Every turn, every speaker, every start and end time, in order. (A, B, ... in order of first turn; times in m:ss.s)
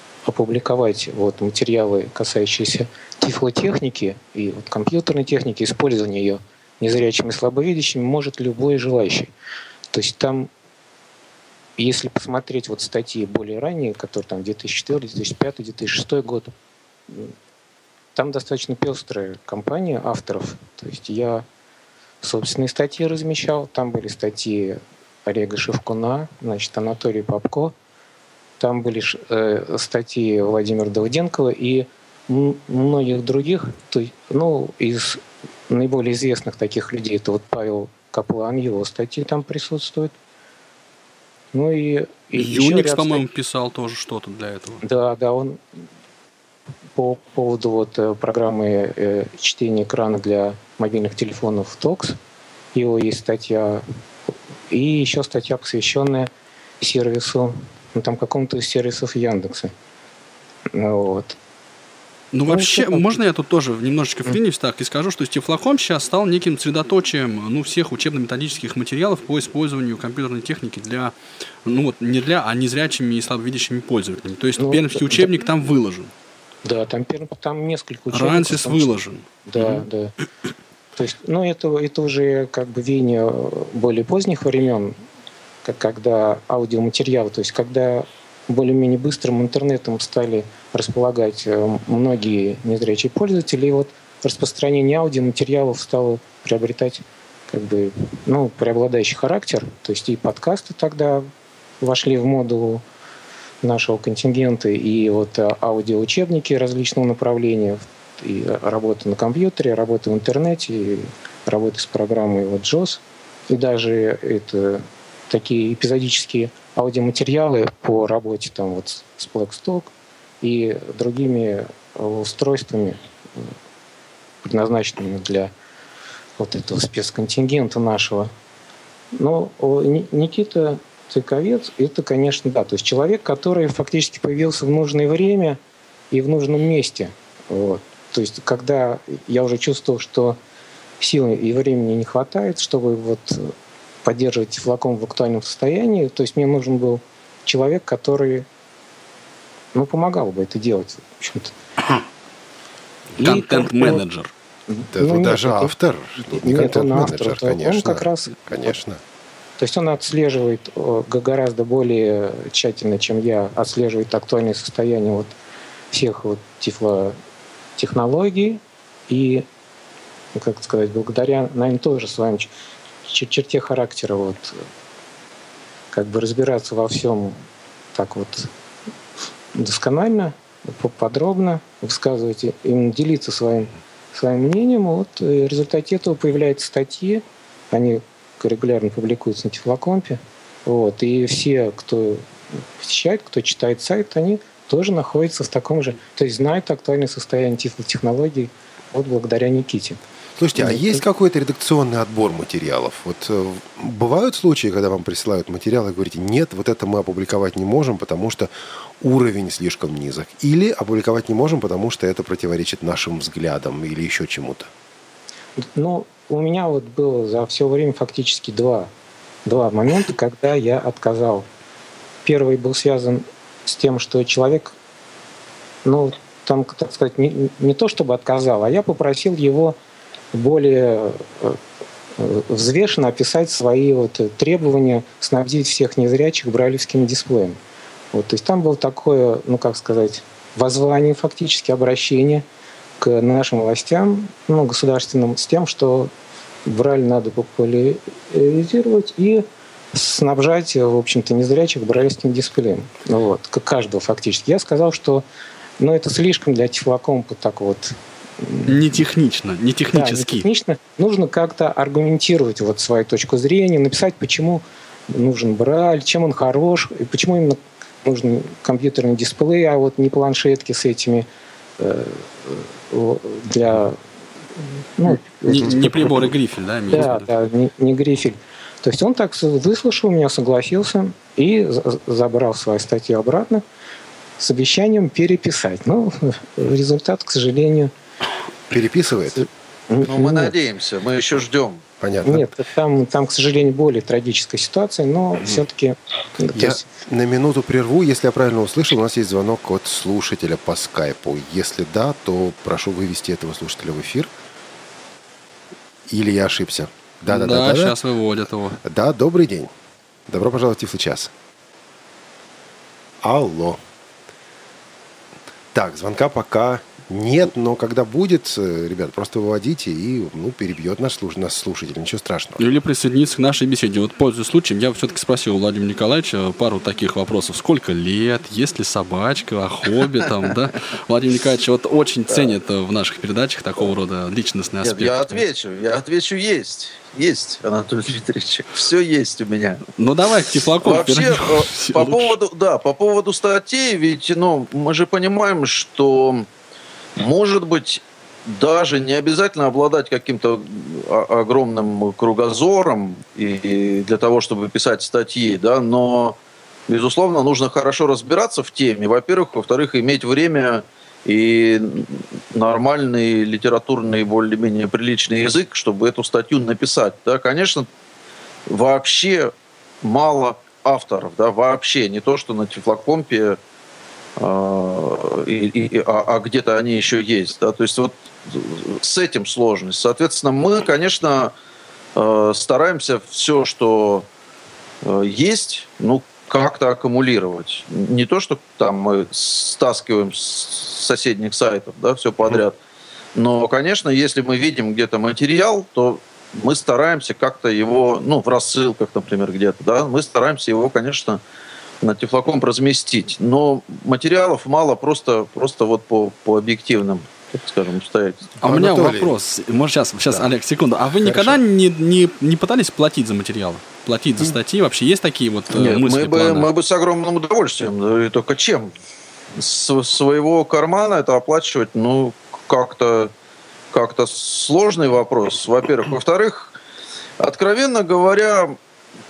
0:00.2-0:09.3 A
0:09.9-0:10.5 A
0:11.8-0:16.5 A
0:17.1-0:17.3 A
0:18.1-0:21.4 A
0:22.2-0:27.7 A
0:28.6-0:40.1 A
0:41.5-0:43.2 A
0:42.3-0:44.8 B
0:44.8-0:45.6 A
0:47.0-0:52.2 A
0:52.7-0:53.8 A
0:54.7-0:56.3 A
0:56.8-0:59.7 A
1:00.7-1:01.4 A
1:02.3-1:16.1 B
1:02.5-1:03.1 A
1:14.6-1:15.3 A
1:16.6-1:18.9 A
1:18.1-1:19.8 B
1:19.5-1:20.1 A
1:21.0-1:24.9 A
1:25.6-1:41.3 A
1:41.8-1:42.8 A
1:43.6-1:59.9 A
2:00.4-2:03.4 A
2:04.4-2:05.5 A
2:06.4-2:08.3 A
2:09.1-2:15.6 A
2:16.1-2:20.4 A
2:21.0-2:23.5 A
2:24.0-2:28.4 A
2:29.7-2:31.5 A
2:33.2-2:34.3 B
2:33.2-2:34.0 A
2:34.7-2:38.7 A
2:34.9-2:39.0 C
2:39.6-2:45.3 A
2:45.9-2:47.1 A
2:47.8-2:49.4 A
2:50.3-2:52.5 A
2:53.0-2:54.6 A
2:55.9-2:57.4 A
2:57.9-2:58.5 A
2:59.5-3:12.2 A
3:12.8-3:20.0 A
3:20.4-3:34.7 C
3:20.6-3:21.0 A
3:35.7-3:38.9 A
3:39.4-3:41.5 A
3:42.2-3:44.7 A
3:45.8-3:49.8 A
3:50.3-3:51.6 A
3:52.2-3:57.6 A
3:58.1-4:02.4 A
4:03.0-4:06.1 A
4:06.6-4:15.2 A
4:15.8-4:18.7 A
4:18.7-4:20.4 B
4:19.9-4:31.3 A
4:31.8-4:34.0 A
4:35.0-4:36.3 A
4:35.4-4:37.3 B
4:36.9-4:43.6 A
4:44.4-4:47.9 A
4:48.7-4:49.4 C
4:49.9-4:50.5 A
4:50.0-4:51.8 D
4:52.0-4:52.5 C
4:52.2-4:56.8 A
4:56.5-5:04.3 C
5:06.1-5:08.0 C
5:07.3-5:08.8 B
5:08.8-5:09.7 C
5:10.3-5:11.3 C
5:13.2-5:13.8 C
5:15.7-5:22.6 C
5:22.6-5:35.4 B
5:32.3-5:32.5 D
5:34.8-5:39.8 D
5:40.0-5:42.4 B
5:40.8-5:46.5 D
5:47.2-6:07.9 D
6:08.7-6:13.6 D
6:14.4-6:21.5 D
6:22.1-6:24.2 D
6:25.0-6:32.8 D
6:33.3-6:41.4 D
6:42.0-6:48.6 D
6:48.6-6:49.3 C
6:48.6-6:56.7 B
6:51.2-6:51.6 C
6:55.7-6:58.9 D
6:59.6-7:03.3 D
7:03.9-7:06.7 D
7:07.4-7:08.8 D